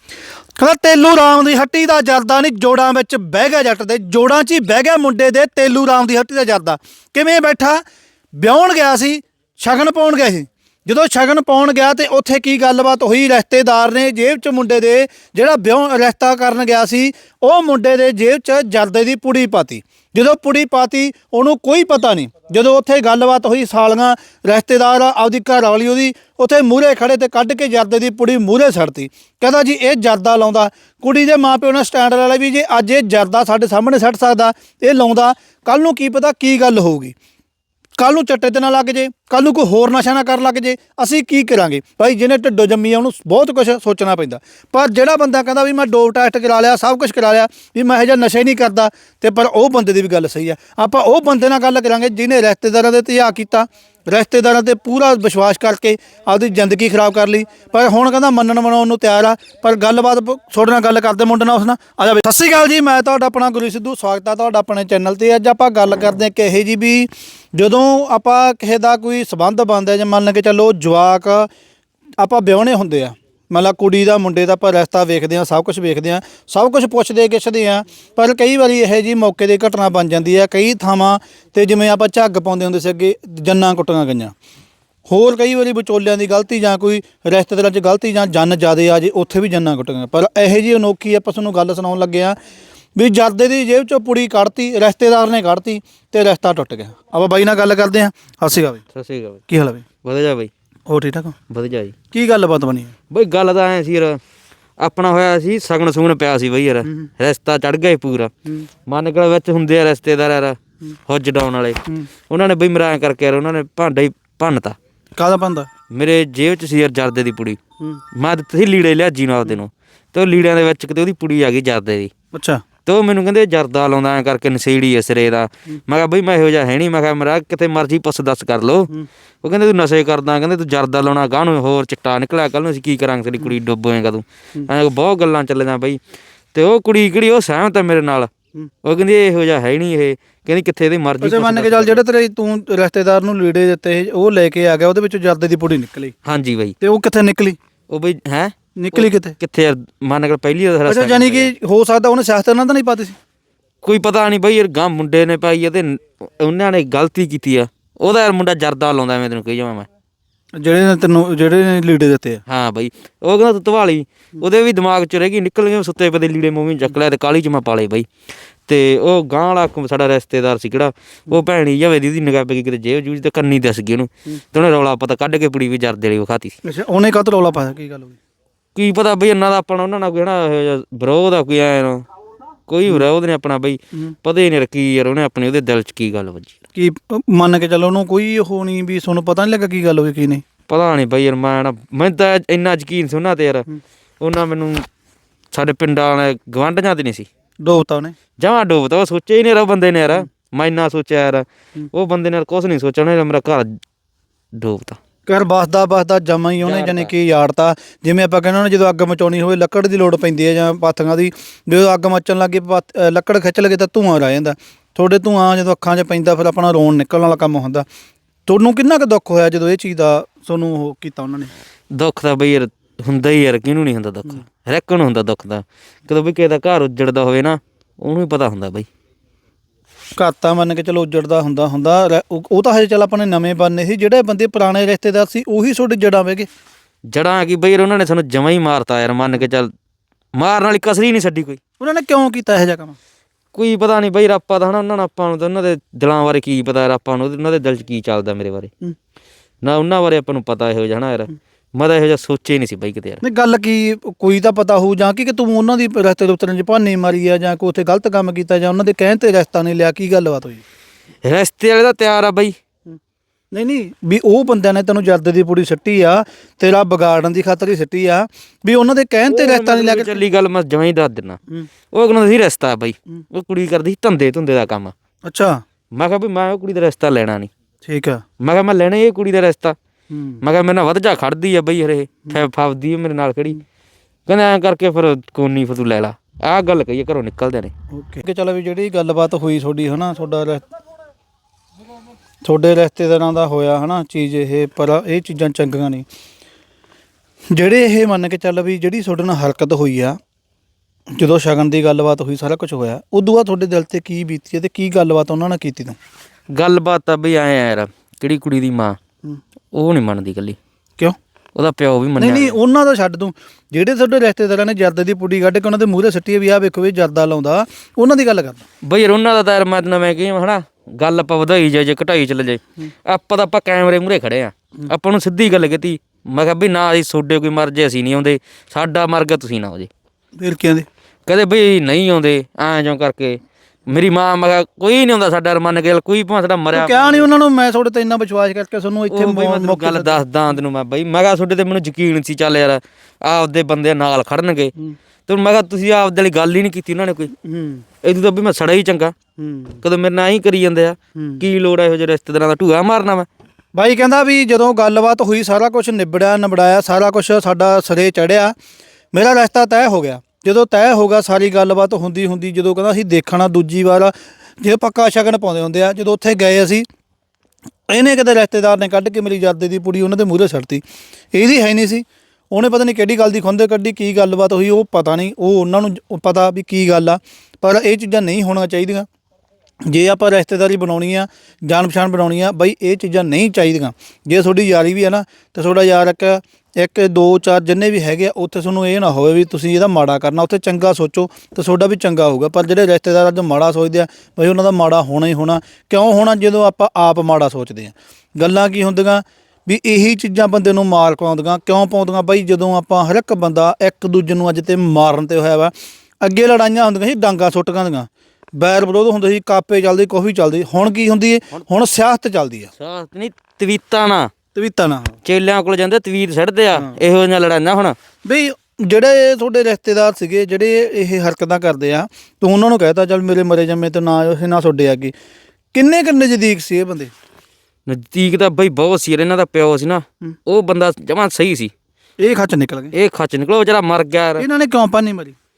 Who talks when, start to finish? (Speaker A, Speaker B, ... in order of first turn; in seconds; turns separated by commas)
Speaker A: 0.6-7.8, Speaker A: 8.3-37.1, Speaker A: 38.0-71.5, Speaker A: 72.2-84.3, Speaker A: 85.1-92.4, Speaker A: 93.0-98.8, Speaker B: 98.9-99.4, Speaker A: 99.5-99.8, Speaker B: 100.0-100.5, Speaker A: 100.9-101.3, Speaker B: 101.5-101.9, Speaker A: 102.1-102.9, Speaker B: 103.1-104.2, Speaker B: 104.8-108.3, Speaker B: 108.9-114.8, Speaker A: 115.2-115.7, Speaker B: 115.9-117.6, Speaker B: 118.1-122.1, Speaker A: 122.3-122.6, Speaker B: 122.8-128.9, Speaker B: 129.4-136.0, Speaker B: 136.5-138.3, Speaker B: 138.8-142.0, Speaker A: 141.2-146.1, Speaker B: 146.2-146.7, Speaker A: 146.8-147.6, Speaker B: 147.9-151.5, Speaker A: 148.8-149.4, Speaker A: 150.8-153.2, Speaker B: 153.8-159.9, Speaker A: 160.6-162.4, Speaker B: 162.5-168.1, Speaker B: 168.7-176.6, Speaker A: 176.6-178.2, Speaker B: 178.7-182.0, Speaker B: 182.7-186.6, Speaker A: 186.7-190.4, Speaker B: 190.7-193.7, Speaker B: 194.2-194.8, Speaker B: 195.5-197.3, Speaker A: 197.6-198.2, Speaker B: 198.4-203.7, Speaker B: 204.6-205.0, Speaker A: 205.3-217.8, Speaker B: 206.6-207.1, Speaker A: 218.4-221.5, Speaker B: 221.9-228.9, Speaker A: 230.2-236.5, Speaker B: 237.1-239.7, Speaker B: 240.4-241.6, Speaker A: 241.8-243.0, Speaker B: 243.5-248.7, Speaker B: 249.6-253.2, Speaker A: 253.2-260.6, Speaker B: 261.2-262.5, Speaker A: 263.5-270.2, Speaker B: 269.3-271.4, Speaker B: 271.9-274.9, Speaker A: 275.3-275.6, Speaker B: 275.9-277.5, Speaker A: 277.8-278.2, Speaker B: 278.4-279.8, Speaker A: 280.1-280.4, Speaker B: 280.4-283.6, Speaker B: 284.3-287.7, Speaker A: 287.9-290.6, Speaker A: 292.4-296.1, Speaker A: 297.5-300.2, Speaker A: 301.1-305.9, Speaker B: 306.5-309.0, Speaker B: 309.7-310.6, Speaker B: 311.5-312.6, Speaker A: 312.2-318.6, Speaker B: 318.8-329.9, Speaker A: 330.4-330.9, Speaker B: 331.3-337.3, Speaker A: 336.7-340.2, Speaker B: 339.1-344.7, Speaker B: 345.3-347.3, Speaker A: 347.4-347.8, Speaker B: 348.0-349.1, Speaker A: 349.4-349.8, Speaker B: 349.8-353.3, Speaker A: 351.1-351.4, Speaker A: 353.7-358.5, Speaker A: 359.1-366.9, Speaker A: 367.9-370.8, Speaker A: 371.3-379.1, Speaker A: 379.9-412.7, Speaker B: 412.8-414.3, Speaker A: 414.5-415.2, Speaker B: 415.2-418.0, Speaker A: 418.2-425.1, Speaker A: 425.7-427.1, Speaker B: 427.9-431.7, Speaker A: 432.2-432.9, Speaker B: 432.9-434.4, Speaker A: 434.4-435.4